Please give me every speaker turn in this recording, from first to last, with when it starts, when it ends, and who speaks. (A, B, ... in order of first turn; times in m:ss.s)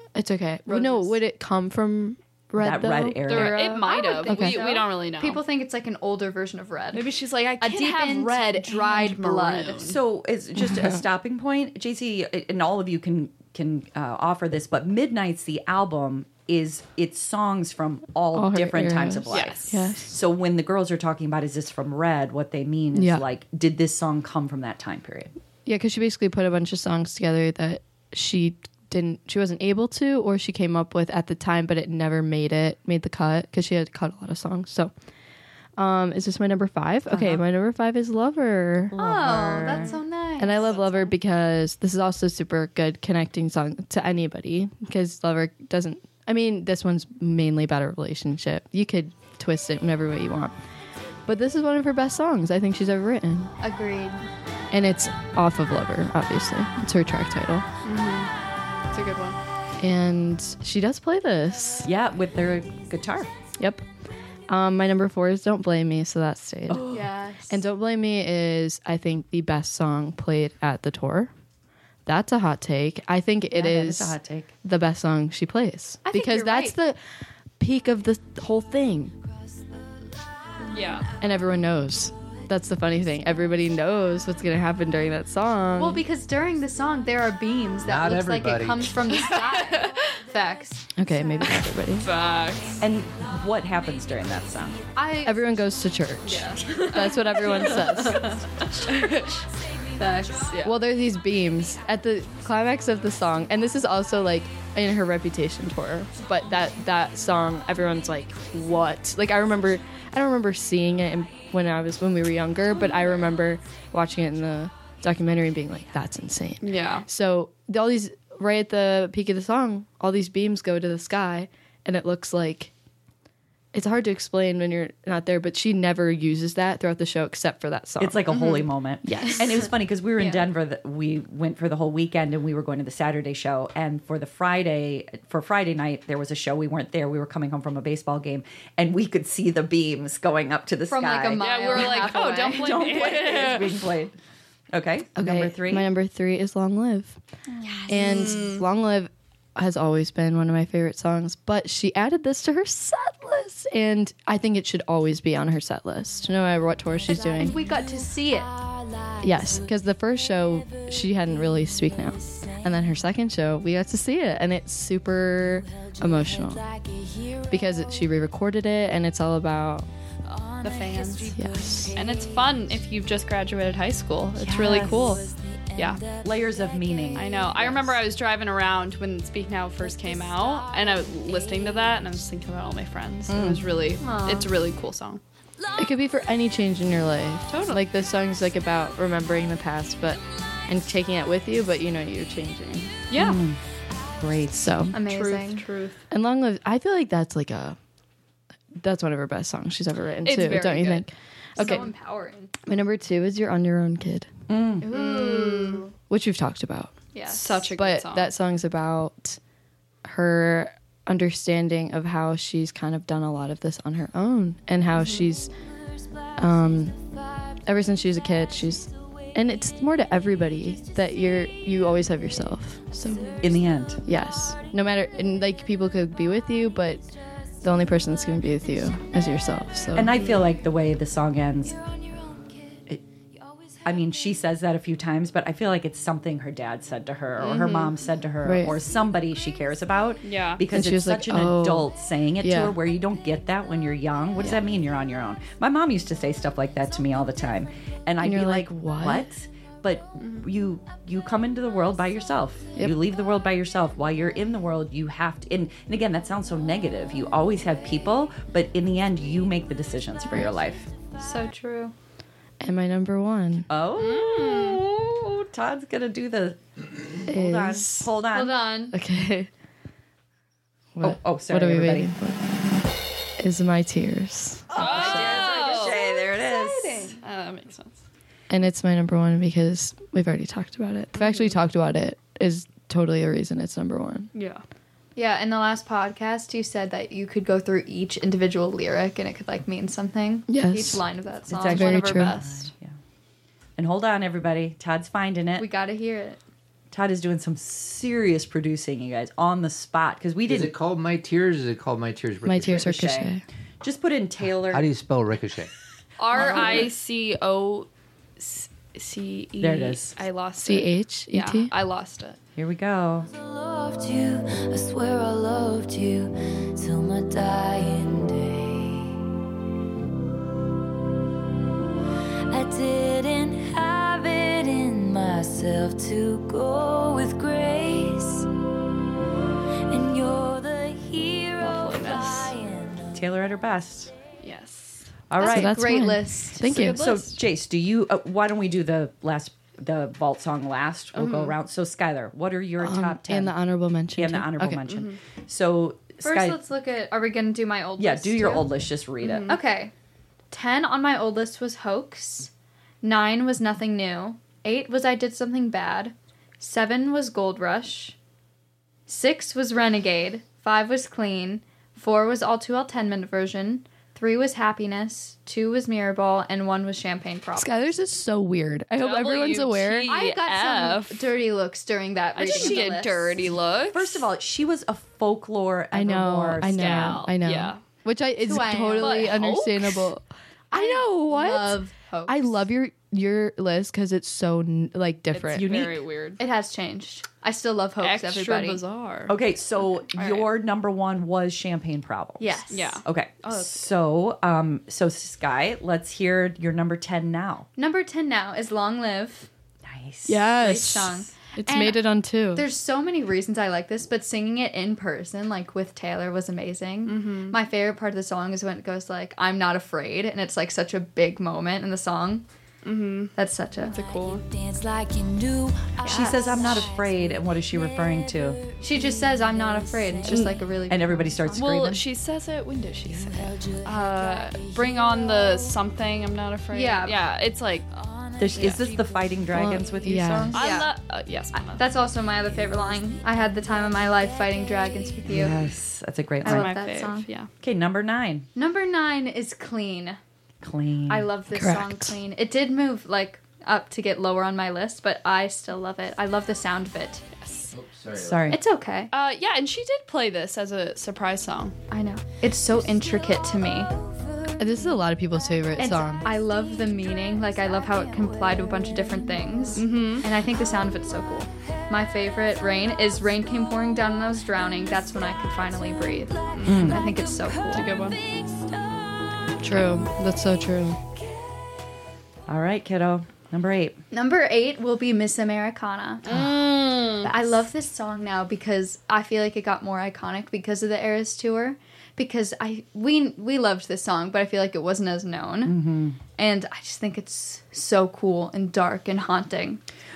0:00.2-0:04.6 A
0:00.7-0:01.1 B
0:02.6-0:03.8 C
0:03.3-0:05.4 D
0:03.8-0:07.1 B
0:06.9-0:10.0 D
0:07.6-0:09.9 B
0:09.8-0:25.3 C
0:10.6-0:11.0 A
0:18.3-0:20.2 A
0:19.3-0:19.8 D
0:22.9-0:23.2 A
0:25.7-0:34.9 A
0:35.8-0:50.5 A
0:37.1-0:37.4 C
0:39.0-0:41.1 B
0:51.3-0:53.5 A
0:53.6-0:54.3 B
0:54.7-0:57.7 A
0:57.8-0:58.3 D
0:58.9-0:59.4 D
0:59.8-1:01.9 A
1:01.8-1:03.3 C
1:03.6-1:03.8 A
1:04.5-1:11.3 A
1:06.7-1:07.0 C
1:06.9-1:07.6 B
1:12.1-1:17.0 A
1:13.5-1:14.5 C
1:16.1-1:16.8 B
1:17.6-1:19.1 A
1:20.5-1:21.2 E
1:20.7-1:21.1 D
1:21.2-1:26.0 A
1:25.8-1:30.8 B
1:27.8-1:29.0 F
1:29.2-1:30.0 D
1:29.8-1:30.6 E
1:31.0-1:32.1 A
1:31.2-1:31.5 E
1:32.0-1:32.8 D
1:32.8-1:34.8 C
1:35.0-1:35.4 B
1:35.2-1:38.4 A
1:36.3-1:39.4 D
1:37.7-1:38.1 B
1:39.8-1:40.6 E
1:40.0-1:40.5 B
1:40.5-1:40.8 D
1:40.6-2:02.7 A
1:56.6-1:57.1 D
2:03.7-2:08.4 A
2:08.0-2:24.2 C
2:09.0-2:09.7 A
2:10.2-2:10.5 B
2:20.9-2:22.9 B
2:21.4-2:23.8 D
2:24.7-2:25.9 C
2:25.2-2:27.2 A
2:27.6-2:28.3 E
2:27.9-2:37.6 A
2:28.0-2:28.6 D
2:37.1-2:39.7 E
2:37.1-2:38.5 B
2:39.2-2:46.6 A
2:40.4-2:42.7 E
2:45.7-2:48.0 E
2:47.5-2:49.9 A
2:50.2-2:52.8 E
2:50.6-2:51.4 D
2:51.4-2:52.0 A
2:52.0-2:55.2 D
2:54.4-2:55.1 C
2:55.0-2:57.9 E
2:55.8-2:56.0 D
2:56.2-2:57.4 C
2:57.1-3:05.2 D
2:59.8-3:02.0 E
3:03.3-3:03.6 C
3:04.0-3:04.5 B
3:05.8-3:13.0 A
3:07.5-3:07.8 D
3:13.1-3:13.4 D
3:13.1-3:13.6 C
3:14.2-3:15.0 C
3:14.6-3:15.0 A
3:14.9-3:15.7 B
3:14.9-3:16.0 D
3:16.1-3:17.8 A
3:18.8-3:21.9 A
3:20.2-3:21.9 D
3:21.6-3:22.5 B
3:22.7-3:24.3 A
3:24.5-3:24.9 C
3:24.8-3:25.9 B
3:24.9-3:25.9 D
3:26.1-3:27.0 A
3:27.1-3:27.7 B
3:27.3-3:28.3 D
3:27.7-3:29.4 A
3:30.0-3:35.5 A
3:36.4-3:37.0 A
3:37.0-3:37.6 E
3:37.7-3:43.3 A
3:43.0-3:43.4 D
3:43.0-3:43.8 E
3:43.4-3:44.0 C
3:44.0-3:47.0 A
3:47.6-3:50.2 A
3:50.0-3:51.8 C
3:51.7-3:52.8 E
3:53.3-3:54.2 E
3:53.8-4:20.9 C
3:57.4-3:58.0 D
3:58.4-3:58.8 A
4:00.2-4:00.6 D
4:00.7-4:02.8 A
4:08.2-4:09.3 A
4:21.2-4:21.9 B
4:22.6-4:23.7 A
4:23.7-4:26.6 C
4:24.0-4:24.8 D
4:27.1-4:28.6 C
4:27.3-4:28.1 A
4:28.3-4:29.0 B
4:28.9-4:29.5 A
4:31.0-4:32.4 A
4:31.0-4:32.1 C
4:33.4-4:35.0 A
4:34.7-4:37.2 C
4:34.7-4:38.0 D
4:35.0-4:37.1 B
4:38.5-4:44.3 A
4:41.2-4:41.5 D
4:44.3-4:44.6 D
4:45.2-4:52.0 B
4:50.5-4:51.0 A
4:51.5-4:53.0 C
4:51.7-4:52.7 D
4:51.7-4:52.4 A
4:53.8-4:55.7 C
4:55.6-4:56.4 B
4:56.9-5:00.7 C
5:00.5-5:03.0 F
5:02.4-5:03.4 A
5:02.7-5:03.3 C
5:03.8-5:04.9 C
5:04.7-5:05.7 F
5:06.2-5:12.4 D
5:06.3-5:06.9 C
5:09.6-5:10.2 C
5:10.6-5:11.7 A
5:12.6-5:13.3 C
5:13.3-5:19.2 E
5:22.5-5:28.5 E
5:29.9-5:33.2 E
5:31.6-5:32.5 D
5:33.2-5:34.1 C
5:34.4-5:35.1 D
5:35.3-5:35.8 C
5:35.4-5:37.2 B
5:35.4-5:37.0 A
5:36.7-5:37.3 D
5:36.8-5:43.6 C
5:41.2-5:41.6 D
5:42.8-5:44.8 A
5:44.2-5:46.6 C
5:44.9-5:45.2 D
5:46.2-5:48.8 B
5:48.0-5:49.5 C
5:49.2-5:49.6 D
5:49.4-5:49.9 B
5:50.5-5:52.5 B
5:53.0-5:58.2 B
5:59.1-6:07.8 B
6:07.6-6:10.1 A
6:09.0-6:11.3 D
6:10.1-6:13.4 B
6:12.4-6:14.3 D
6:12.4-6:12.8 C
6:13.9-6:17.3 C
6:15.9-6:25.7 A
6:16.8-6:17.8 D
6:18.4-6:19.4 B
6:19.0-6:20.1 D
6:20.7-6:22.6 B
6:25.3-6:26.4 D
6:25.6-6:26.0 C
6:26.4-6:28.8 B
6:28.0-6:29.4 D
6:29.3-6:37.7 C
6:30.1-6:30.5 D
6:32.4-6:33.0 B
6:32.7-6:33.9 D
6:37.8-6:39.5 B
6:39.8-6:40.4 C
6:40.3-6:42.7 A
6:40.6-6:52.4 B
6:47.0-6:47.6 D
6:52.8-6:53.3 D
6:53.3-6:54.0 B
6:53.8-7:00.6 E
6:53.9-6:54.4 D
6:56.0-6:56.8 B
6:56.1-6:58.6 C
6:58.8-7:01.6 B
7:00.3-7:00.6 D
7:00.9-7:02.0 C
7:01.5-7:07.9 D
7:03.1-7:05.8 E
7:06.7-7:07.2 B
7:07.9-7:09.5 E
7:08.4-7:10.6 C
7:08.6-7:08.9 D
7:09.5-7:10.6 A
7:10.5-7:11.8 D
7:10.6-7:10.9 B
7:11.6-7:15.6 B
7:13.1-7:15.2 E
7:15.3-7:16.7 C
7:16.4-7:17.5 D
7:16.4-7:17.3 B
7:17.6-7:18.5 C
7:18.6-7:20.2 B
7:20.6-7:21.3 C
7:21.1-7:27.3 B
7:21.5-7:22.2 A
7:27.4-7:27.7 D
7:27.7-7:28.5 F
7:28.1-7:28.6 C
7:28.5-7:29.1 B
7:29.1-7:31.8 D
7:31.9-7:33.9 B
7:34.6-7:36.3 A
7:35.8-7:47.9 B
7:37.5-7:38.7 E
7:39.7-7:40.3 D
7:46.5-7:47.0 D
7:46.7-7:47.0 C
7:46.7-7:49.6 E
7:47.7-7:48.2 D
7:49.6-7:51.0 A
7:52.5-7:54.0 C
7:54.1-7:56.5 B
7:56.2-7:57.3 D
7:57.2-8:05.8 B
8:05.6-8:06.2 C
8:06.4-8:09.8 B